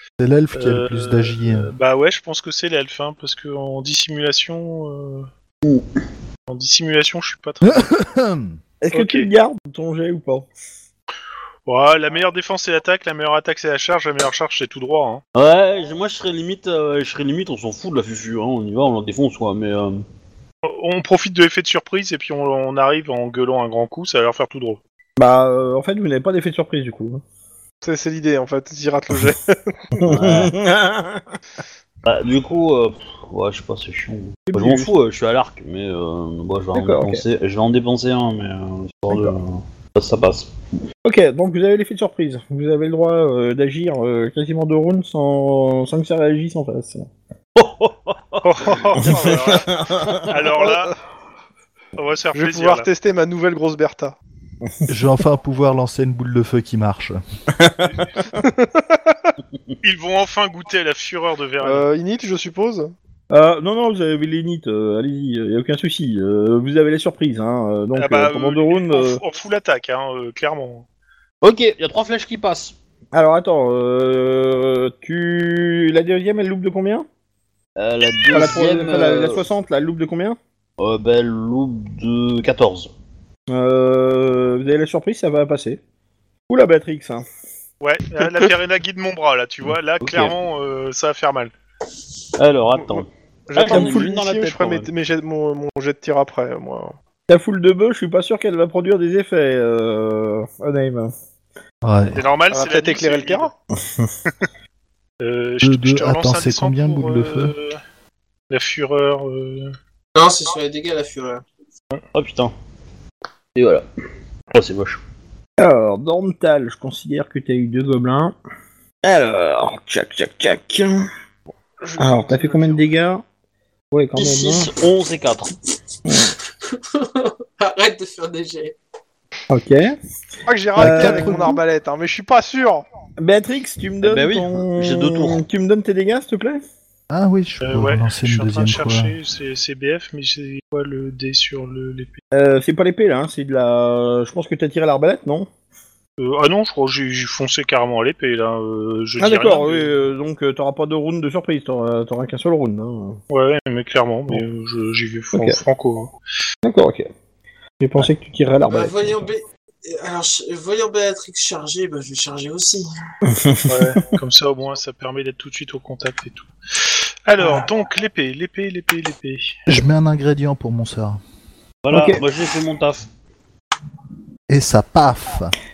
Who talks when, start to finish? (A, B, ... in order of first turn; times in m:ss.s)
0:00.2-0:01.7 A
0:00.6-0:05.3 B
0:06.5-0:07.9 B
0:07.6-0:08.6 A
0:08.8-0:10.5 C
0:08.9-0:09.3 B
0:11.7-0:15.2 B
0:15.4-0:20.0 D
0:20.6-0:24.8 B
0:25.2-0:27.2 C
0:27.8-0:29.7 E
0:30.0-0:31.3 C
0:30.1-0:30.6 D
0:32.0-0:40.5 D
0:34.5-0:34.9 C
0:36.8-0:37.2 C
0:39.1-0:39.4 C
0:41.0-0:47.1 C
0:47.6-0:48.6 D
0:48.4-0:51.0 B
0:49.0-0:49.7 E
0:49.0-0:50.3 C
0:50.2-0:50.9 E
0:52.0-0:52.9 B
0:52.3-0:54.2 E
0:54.9-0:57.2 A
0:57.6-0:58.4 C
0:58.4-0:59.2 E
0:59.8-1:01.8 B
1:01.6-1:02.9 E
1:03.3-1:09.2 C
1:08.0-1:10.8 B
1:11.4-1:12.8 D
1:13.1-1:17.1 C
1:17.8-1:19.4 D
1:18.3-1:20.4 C
1:20.8-1:22.9 D
1:23.5-1:25.8 C
1:26.5-1:27.3 C
1:27.8-1:31.5 B
1:28.2-1:28.4 E
1:30.0-1:30.4 D
1:32.4-1:34.9 D
1:32.8-1:37.0 E
1:33.7-1:34.1 C
1:37.3-1:41.1 C
1:41.8-1:42.3 A
1:42.2-1:43.5 B
1:42.5-1:43.5 E
1:43.8-1:44.1 C
1:45.2-1:47.8 B
1:45.6-1:47.5 A
1:48.5-1:49.7 B
1:50.2-1:51.4 F
1:52.1-1:52.5 D
1:53.6-1:53.8 D
1:54.5-1:55.0 D
1:55.6-1:58.4 C
1:59.0-2:01.1 C
2:01.8-2:02.9 E
2:02.0-2:03.2 C
2:03.9-2:04.7 C
2:04.2-2:05.5 D
2:06.1-2:06.3 C
2:06.6-2:08.8 F
2:09.5-2:10.0 C
2:10.5-2:12.8 E
2:10.8-2:11.6 C
2:10.8-2:11.6 A
2:13.2-2:16.6 C
2:14.0-2:15.4 D
2:17.1-2:19.1 A
2:17.6-2:22.1 B
2:22.3-2:25.5 C
2:26.2-2:30.0 B
2:29.2-2:33.2 C
2:33.3-2:36.1 B
2:36.6-2:37.1 C
2:37.8-2:39.2 C
2:38.7-2:42.9 F
2:43.2-2:44.1 C
2:43.7-2:49.5 B
2:49.7-2:51.2 A
2:51.8-2:53.1 D
2:51.9-2:52.2 C
2:54.5-2:55.6 A